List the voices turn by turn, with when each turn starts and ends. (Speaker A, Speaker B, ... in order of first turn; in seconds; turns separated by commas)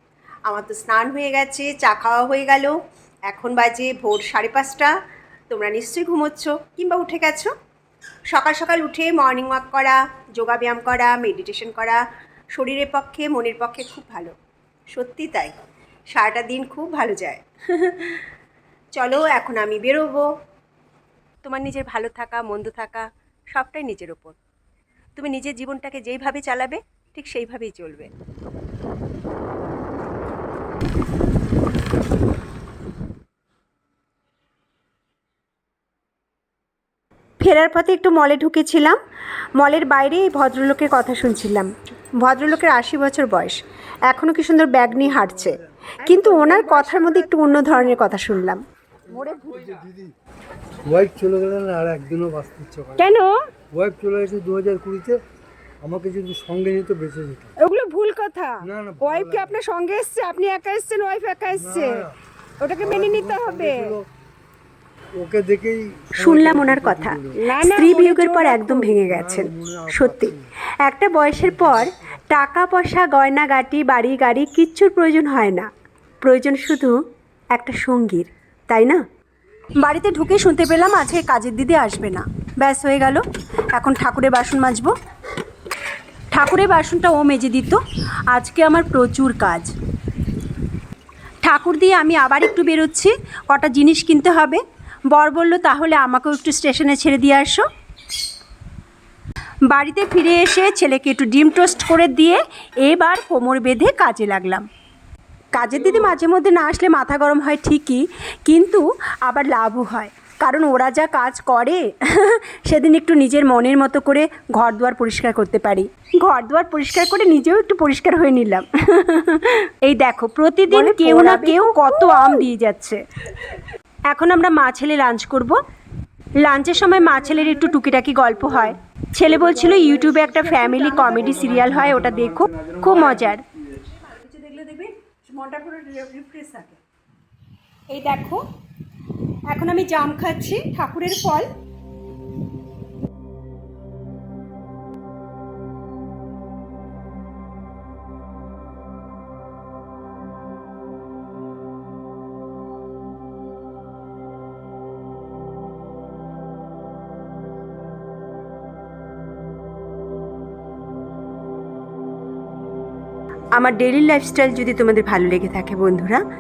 Speaker A: 0.5-2.7, Speaker A: 3.3-4.9, Speaker A: 5.5-7.5, Speaker A: 8.3-12.0, Speaker A: 12.5-14.3, Speaker A: 14.9-15.6, Speaker A: 16.1-18.2, Speaker A: 18.9-20.3, Speaker A: 21.4-24.4, Speaker A: 25.1-28.1, Speaker A: 37.4-39.0, Speaker A: 39.6-48.6, Speaker B: 46.0-48.0, Speaker B: 49.1-49.8, Speaker C: 49.2-50.1, Speaker C: 50.9-53.1, Speaker B: 53.0-53.3, Speaker C: 53.7-55.2, Speaker C: 55.8-57.5, Speaker B: 57.6-62.0, Speaker C: 58.6-59.6, Speaker C: 61.5-62.2, Speaker B: 62.6-64.0, Speaker C: 62.8-64.1, Speaker C: 65.2-67.4, Speaker A: 66.1-75.7, Speaker B: 67.5-69.0, Speaker C: 69.0-70.5, Speaker C: 71.4-71.9, Speaker A: 76.2-77.0, Speaker A: 77.5-79.0, Speaker A: 79.8-83.2, Speaker A: 83.7-84.9, Speaker A: 86.3-89.7, Speaker A: 91.4-97.7, Speaker A: 99.7-104.7, Speaker A: 105.5-123.0, Speaker B: 120.7-122.4, Speaker A: 124.1-125.6, Speaker A: 126.4-136.8, Speaker B: 129.4-131.7, Speaker A: 137.9-138.4, Speaker A: 139.5-141.5, Speaker A: 163.6-166.2